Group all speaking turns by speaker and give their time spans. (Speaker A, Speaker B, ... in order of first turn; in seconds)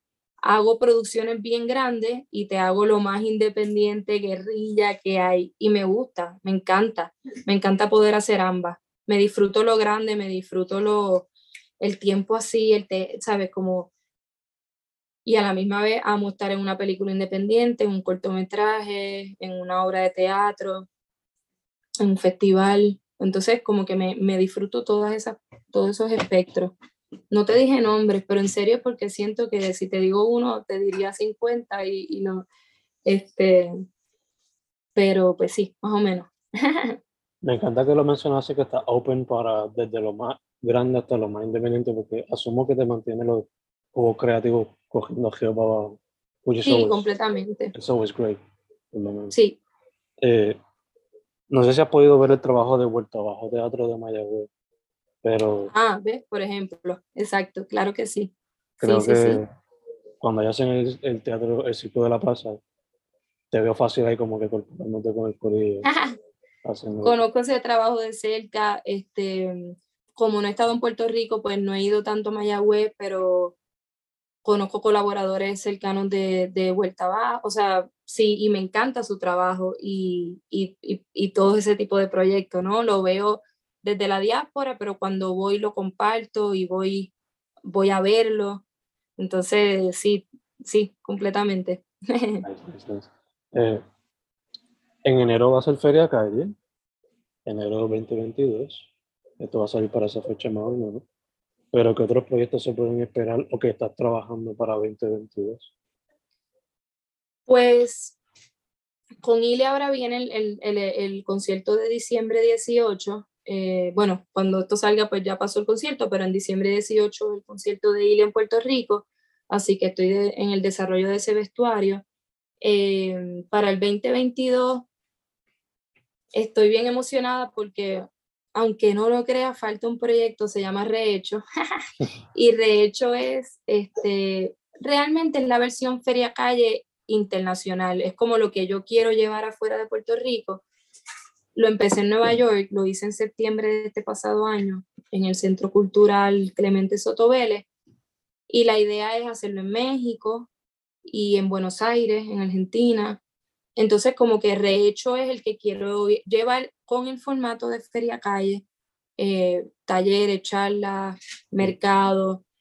Speaker A: 0.4-11.3, 11.8-13.9, 15.2-20.9, 22.0-26.8, 27.3-32.5, 33.0-33.7, 35.0-37.0, 46.6-47.7, 49.3-49.6, 55.7-59.4, 65.8-66.1, 67.0-73.6, 74.4-87.1, 87.7-88.6, 89.2-92.4, 107.5-108.2, 109.2-122.0, 122.6-124.9, 126.3-131.4, 132.3-140.6, 141.5-147.7, 148.5-150.5, 151.1-153.2, 153.8-158.6, 159.2-162.4
Speaker B: 37.4-47.0, 47.7-48.4, 48.9-49.3, 50.2-50.6, 51.5-54.5, 55.2-55.7, 58.8-59.5, 60.2-62.6, 63.5-65.9, 66.6-67.2, 92.4-93.8, 95.0-96.5, 97.5-98.9, 99.4-101.0, 101.7-105.7